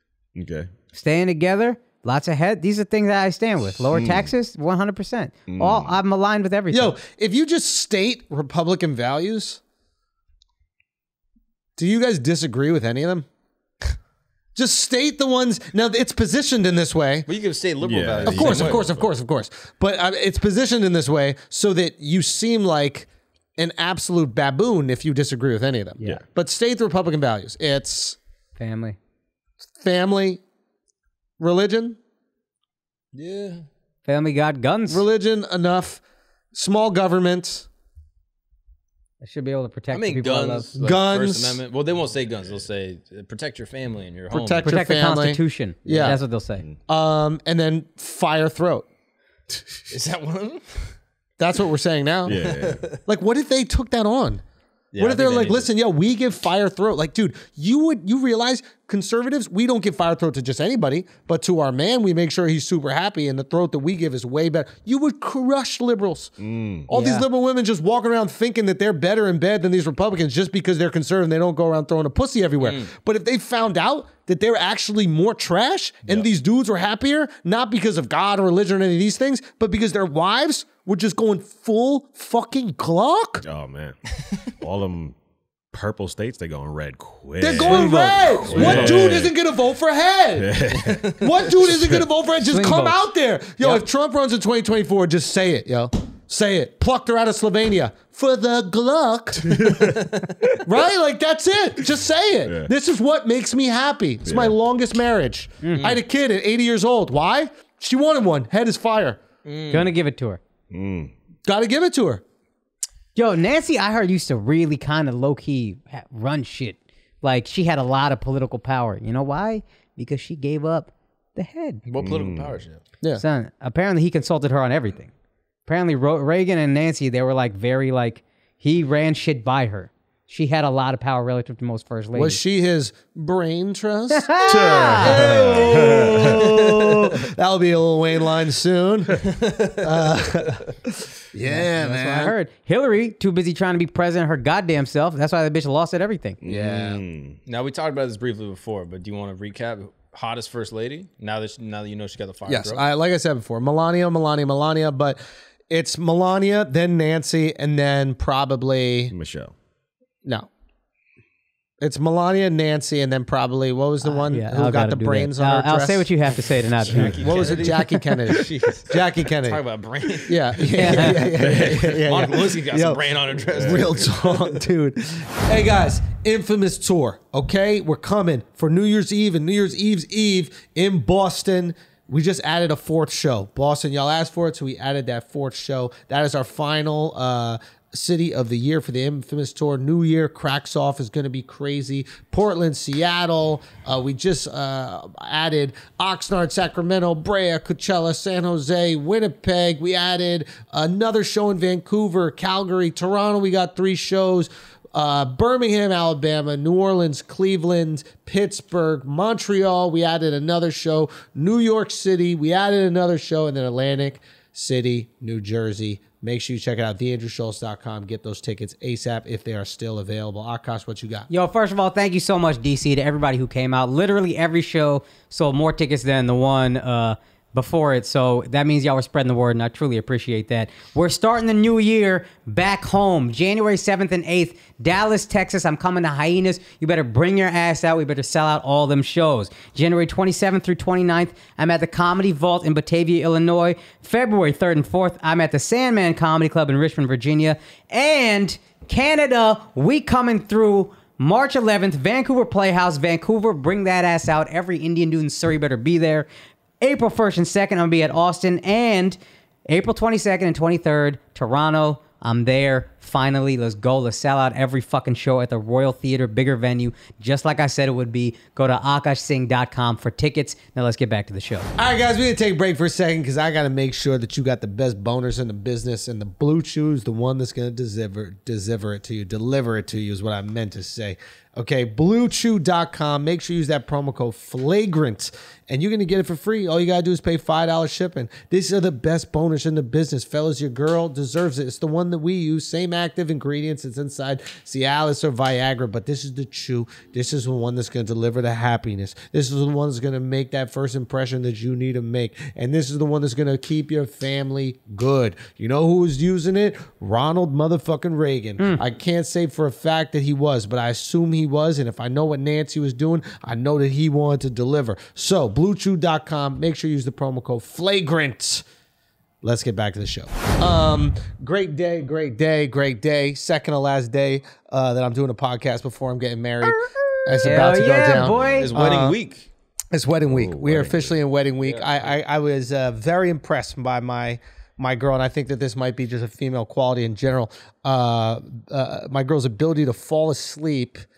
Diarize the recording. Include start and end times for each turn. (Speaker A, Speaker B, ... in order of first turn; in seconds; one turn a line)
Speaker A: 0.3-0.7
Speaker B: 0.9-6.9
Speaker A: 3.9-4.3
Speaker A: 5.5-6.0
Speaker C: 6.7-9.6
Speaker C: 11.8-13.3
Speaker C: 14.5-17.3
Speaker D: 17.2-18.8
Speaker A: 17.8-19.1
Speaker C: 18.2-28.2
Speaker B: 28.6-29.0
Speaker C: 29.8-30.4
Speaker C: 31.4-32.0
Speaker D: 33.1-33.6
Speaker B: 34.1-35.0
Speaker C: 34.9-36.0
Speaker C: 36.5-37.7
Speaker B: 39.2-40.7
Speaker D: 39.9-44.7
Speaker C: 40.8-41.6
Speaker C: 44.3-46.2
Speaker B: 44.6-46.6
Speaker C: 46.9-48.9
Speaker D: 49.9-51.0
Speaker C: 51.4-52.5
Speaker A: 52.2-52.8
Speaker D: 52.3-53.0
Speaker C: 53.0-54.4
Speaker D: 54.9-55.7
Speaker C: 55.0-66.3
Speaker A: 66.4-66.9
Speaker C: 66.9-83.4
Speaker B: 66.9-67.2
Speaker D: 72.6-72.9
Speaker A: 83.4-85.2
Speaker A: 85.7-89.3
Speaker C: 87.4-99.9
Speaker B: 87.6-88.4
Speaker D: 88.5-89.0
Speaker A: 90.4-92.0
Speaker B: 92.5-93.0
Speaker A: 99.5-100.6
Speaker C: 100.6-109.2
Speaker A: 104.2-104.5
Speaker B: 105.6-105.9
Speaker D: 105.7-106.0
Speaker D: 109.4-109.9
Speaker B: 109.7-110.4
Speaker A: 110.7-111.1
Speaker C: 111.5-112.2
Speaker B: 113.2-121.8
Speaker D: 121.8-122.8
Speaker A: 122.0-122.5
Speaker B: 123.2-125.1
Speaker B: 125.7-132.4
Speaker C: 132.1-142.3
Speaker B: 134.1-135.1
Speaker A: 135.2-136.2
Speaker D: 139.2-140.4
Speaker B: 141.4-146.4
Speaker A: 146.4-147.4
Speaker C: 146.4-147.0
Speaker D: 147.4-152.8
Speaker C: 152.5-159.1
Speaker A: 159.1-159.5
Speaker C: 161.8-166.1
Speaker B: 164.0-167.3
Speaker D: 166.9-174.6
Speaker C: 167.0-169.6
Speaker C: 170.2-221.3
Speaker B: 170.7-171.2
Speaker A: 171.4-172.1
Speaker A: 173.5-174.0
Speaker B: 221.3-256.3
Speaker B: 256.8-259.2
Speaker B: 259.7-271.7
Speaker C: 271.8-318.6
Speaker B: 308.6-308.8
Speaker C: 319.4-329.2
Speaker B: 327.4-328.7
Speaker D: 328.6-329.5
Speaker C: 329.9-341.0
Speaker A: 330.3-331.1
Speaker D: 331.6-332.1